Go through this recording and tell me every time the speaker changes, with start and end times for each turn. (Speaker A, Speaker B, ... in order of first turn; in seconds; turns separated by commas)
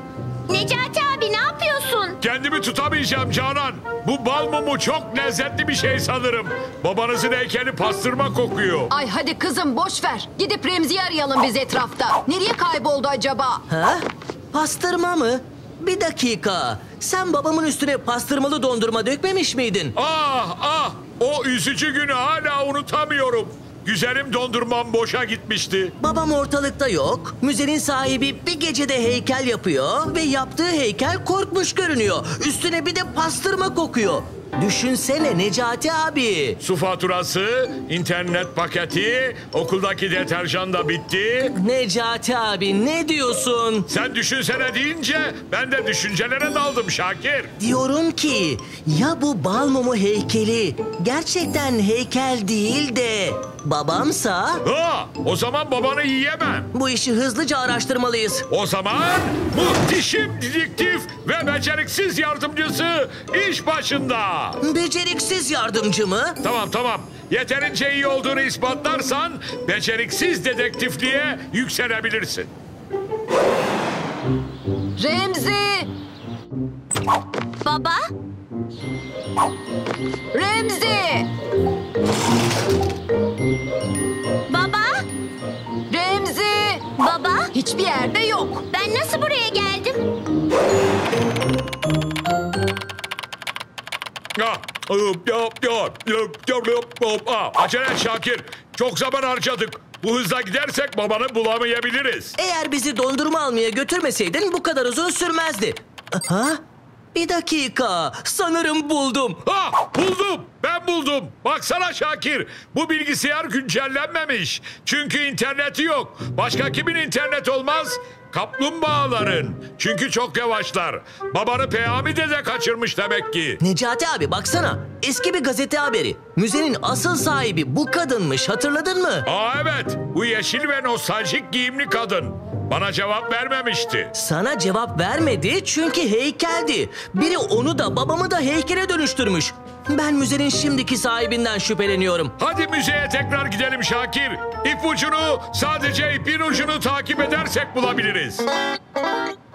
Speaker A: 0.5-2.2, Speaker B: 2.2-8.9, Speaker C: 8.9-13.6, Speaker D: 13.7-19.9, Speaker B: 19.9-25.9, Speaker D: 26.0-36.6, Speaker B: 36.6-41.5, Speaker D: 41.5-43.9, Speaker B: 43.9-47.5, Speaker D: 47.6-54.6, Speaker B: 54.6-56.7, Speaker D: 56.7-58.5, Speaker B: 58.5-64.6, Speaker D: 64.6-66.4, Speaker B: 66.4-72.5, Speaker C: 75.0-75.9, Speaker A: 77.6-78.1, Speaker C: 80.3-81.3, Speaker A: 84.5-85.0, Speaker C: 85.9-86.8, Speaker A: 87.0-87.5, Speaker C: 87.5-88.6, Speaker A: 88.7-90.0, Speaker B: 94.4-102.3, Speaker D: 102.4-106.6, Speaker D: 107.1-109.4, Speaker B: 109.5-123.6, Speaker D: 123.6-129.3, Speaker B: 129.2-134.1, Speaker D: 134.1-142.3, Speaker B: 142.4-148.4